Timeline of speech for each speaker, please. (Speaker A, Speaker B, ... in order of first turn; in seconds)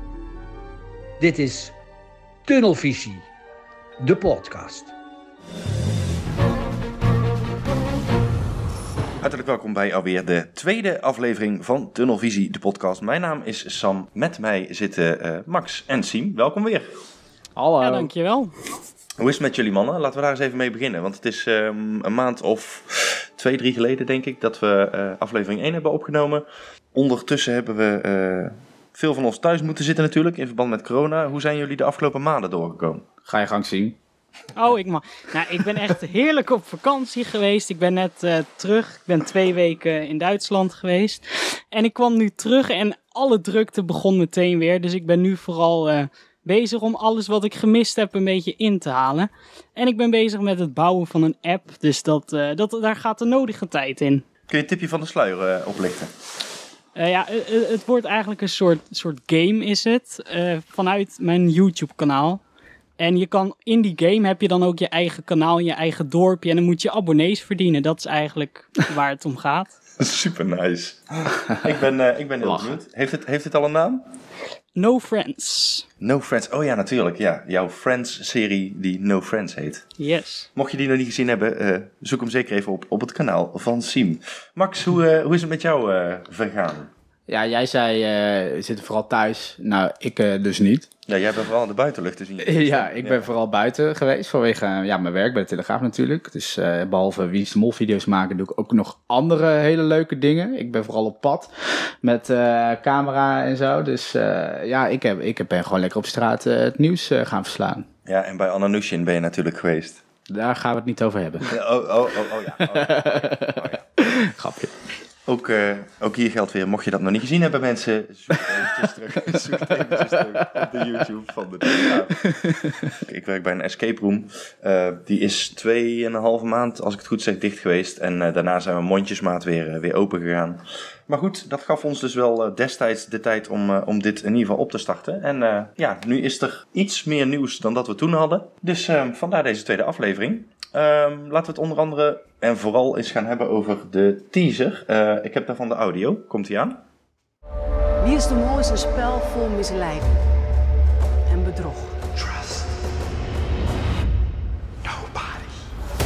Speaker A: 1.2-1.7, 2.5-3.2, 4.0-4.9
Speaker B: 9.2-16.9, 19.2-33.0, 54.5-56.1, 70.0-74.0, 76.0-79.8, 80.5-86.9, 91.1-93.3, 108.1-110.0, 111.5-113.8, 115.3-122.2, 123.0-146.8
Speaker C: 17.6-18.1, 33.3-34.0, 72.4-72.8, 87.3-90.9, 92.4-101.5, 102.0-107.8, 110.3-111.5, 112.7-114.7
Speaker D: 17.8-18.6, 34.6-54.2, 57.0-62.4, 63.0-69.7, 74.8-75.8, 80.0-80.5
Speaker E: 148.0-150.1, 151.3-152.0